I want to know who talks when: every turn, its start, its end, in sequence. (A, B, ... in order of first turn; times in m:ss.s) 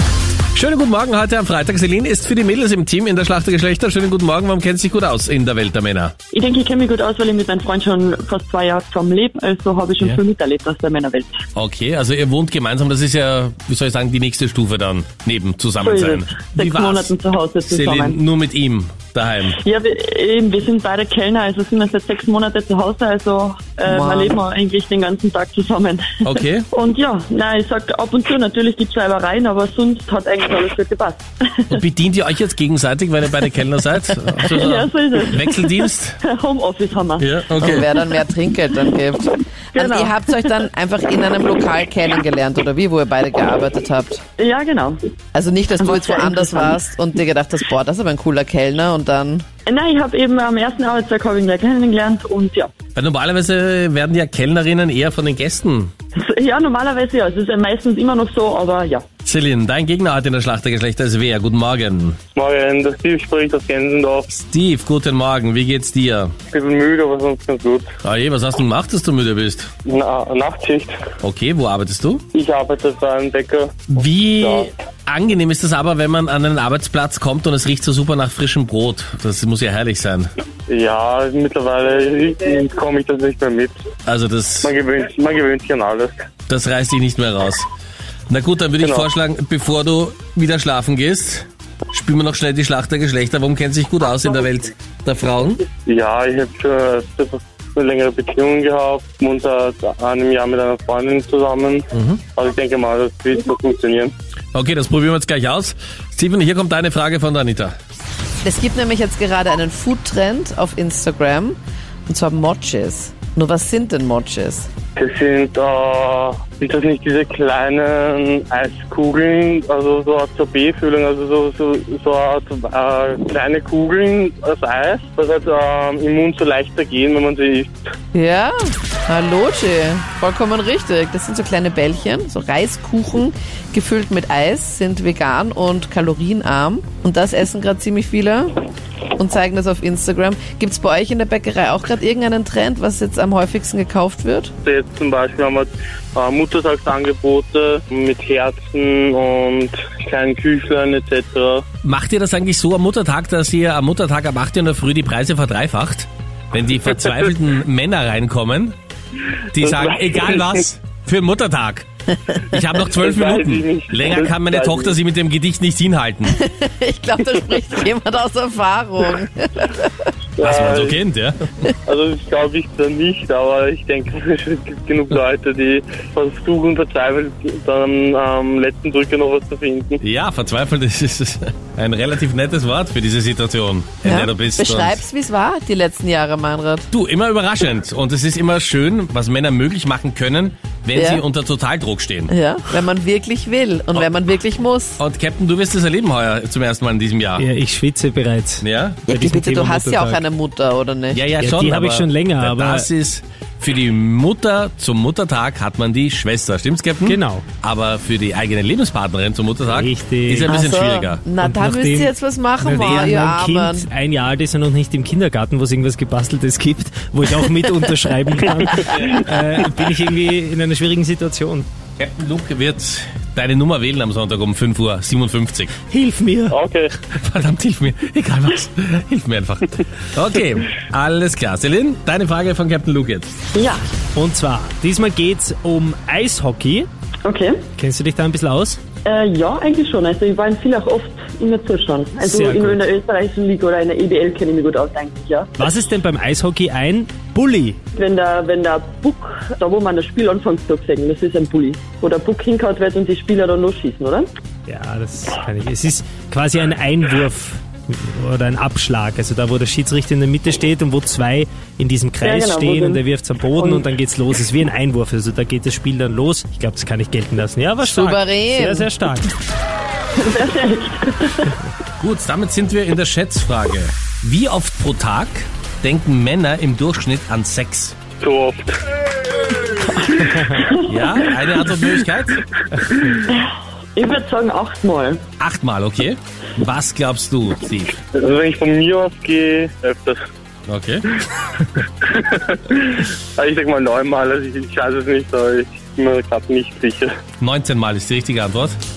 0:00.5-0:06.1 A
0:06.3-0:11.4 B
0:11.6-0:19.6 A
0:15.8-0:18.2 B
0:19.5-0:26.1 B
0:23.8-0:24.4 C
0:26.2-0:26.6 A
0:26.7-0:31.7 B
0:31.7-0:36.2 A
0:34.4-0:37.8 B
0:37.2-0:37.9 A
0:37.6-0:44.2 C
0:39.7-0:40.2 B
0:44.4-0:45.0 B
0:45.3-0:49.4 C
0:45.8-0:46.8 B
0:49.6-0:52.7 B
0:53.0-0:55.9 A
0:56.2-0:59.0 B
0:59.2-1:02.2 A
1:02.3-1:04.3 D
1:04.3-1:06.3 A
1:06.5-1:07.9 D
1:08.0-1:09.7 A
1:09.8-1:10.9 D
1:11.2-1:12.2 A
1:12.3-1:14.7 D
1:13.9-1:20.3 A
1:20.7-1:23.8 D
1:24.0-1:24.7 A
1:24.6-1:26.1 D
1:26.5-1:27.7 A
1:28.3-1:35.6 A
1:28.8-1:29.1 D
1:35.8-1:44.1 D
1:41.9-1:42.2 A
1:44.5-1:47.7 A
1:48.4-1:54.7 C
1:55.0-2:07.7 D
2:08.1-2:18.6 C
2:19.1-2:24.5 C
2:24.6-2:31.6 D
2:31.8-2:38.8 A
2:39.5-2:41.9 A
2:39.6-2:40.6 D
2:42.5-2:46.4 A
2:42.9-2:44.9 D
2:46.3-2:49.9 C
2:50.4-2:51.0 D
2:50.4-2:51.7 A
2:51.8-3:00.0 D
3:00.0-3:05.0 A
3:04.0-3:06.9 C
3:06.9-3:12.3 A
3:10.9-3:11.2 C
3:12.3-3:15.0 C
3:15.0-3:17.4 A
3:17.4-3:20.2 E
3:18.6-3:19.1 A
3:19.1-3:21.2 C
3:21.1-3:31.2 A
3:21.3-3:22.9 E
3:27.0-3:27.4 E
3:29.6-3:30.5 E
3:30.4-3:33.9 C
3:31.3-3:41.7 E
3:42.0-3:45.8 A
3:45.8-3:46.6 E
3:46.5-3:46.9 D
3:47.1-3:53.3 A
3:53.5-3:53.8 B
3:54.2-3:56.9 E
3:57.2-3:57.6 B
3:57.8-3:58.8 E
3:59.0-4:05.5 B
4:02.2-4:02.8 E
4:05.6-4:07.8 E
4:07.9-4:14.3 B
4:14.7-4:29.3 E
4:22.2-4:23.0 B
4:23.5-4:23.8 B
4:27.8-4:28.9 C
4:30.2-4:31.5 B
4:32.0-4:38.0 A
4:38.2-4:38.8 D
4:40.0-4:41.1 B
4:40.8-4:42.4 A
4:42.8-4:43.2 D
4:43.2-4:45.2 B
4:45.4-4:48.0 A
4:48.1-4:50.2 D
4:50.7-4:51.0 A
4:51.8-4:57.1 D
4:57.4-4:58.8 A